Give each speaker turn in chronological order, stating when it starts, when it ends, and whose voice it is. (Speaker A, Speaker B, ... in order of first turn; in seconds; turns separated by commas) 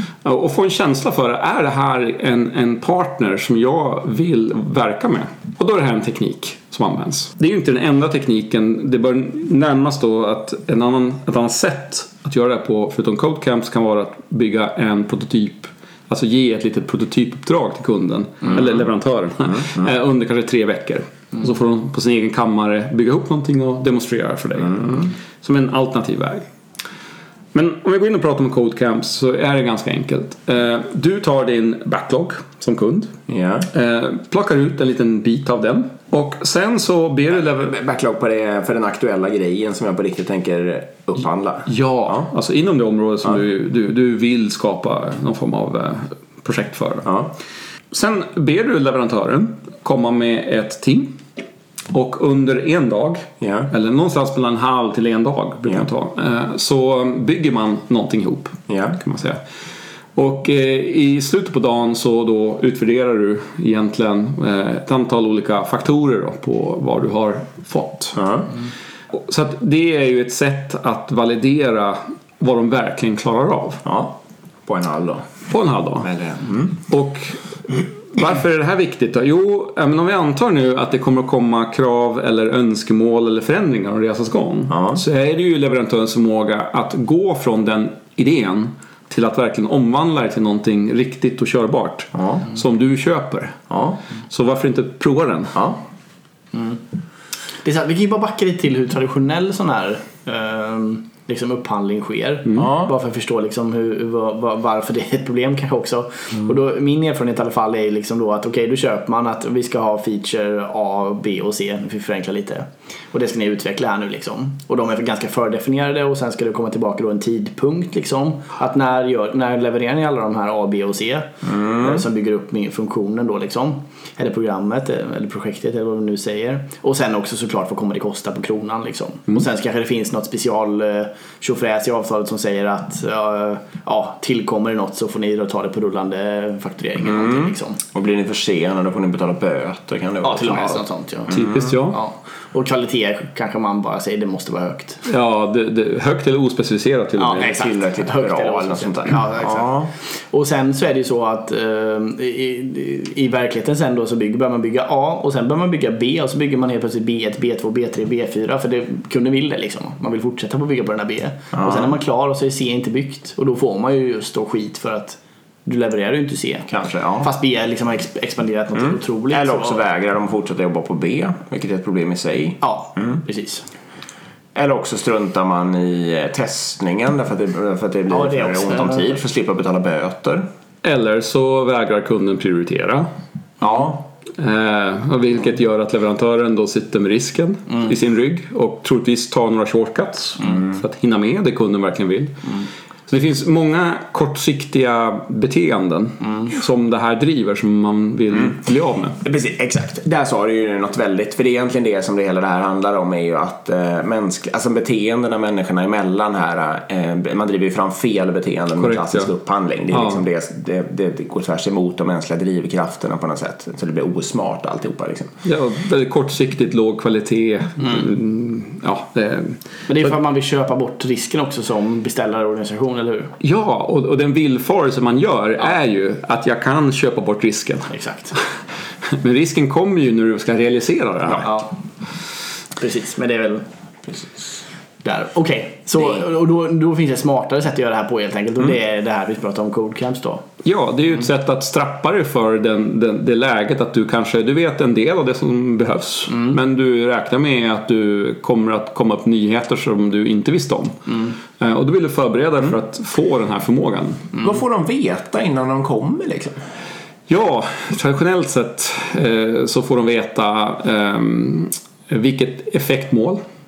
Speaker A: 0.2-26.4, Speaker A: 27.5-33.1, Speaker B: 33.3-33.7, Speaker A: 33.7-37.7, Speaker B: 37.4-42.2, Speaker A: 41.7-47.1, Speaker B: 47.0-47.3, Speaker A: 47.9-51.2, Speaker A: 51.9-59.4, Speaker B: 53.4-53.7, Speaker B: 58.7-59.0, Speaker A: 60.1-68.2, Speaker B: 68.1-68.5, Speaker A: 69.1-73.8, Speaker B: 73.8-75.3, Speaker A: 75.5-76.1, Speaker B: 76.0-76.8, Speaker A: 76.9-93.6, Speaker B: 84.7-85.0, Speaker B: 92.1-92.5, Speaker B: 93.7-94.0, Speaker A: 94.3-95.6, Speaker B: 95.5-95.8, Speaker C: 97.6-137.8, Speaker B: 102.5-102.9, Speaker B: 121.5-121.9, Speaker B: 137.1-141.6, Speaker C: 140.2-145.0, Speaker A: 141.3-142.0, Speaker A: 145.1-147.6, Speaker C: 147.2-169.8, Speaker B: 147.4-149.9, Speaker B: 161.5-161.9, Speaker B: 166.7-167.3, Speaker B: 168.9-173.2, Speaker C: 172.6-173.7, Speaker B: 174.5-180.4, Speaker C: 178.1-179.2, Speaker A: 180.8-183.1, Speaker B: 183.6-184.0, Speaker A: 184.4-199.2, Speaker B: 199.2-215.3, Speaker A: 208.8-209.3, Speaker A: 209.9-210.2, Speaker A: 215.4-219.6, Speaker C: 219.9-223.3, Speaker A: 223.4-228.4, Speaker C: 227.9-228.3, Speaker A: 229.1-231.5, Speaker C: 232.8-233.6, Speaker C: 235.0-240.4, Speaker A: 240.6-254.3, Speaker B: 254.4-256.6, Speaker A: 257.3-263.4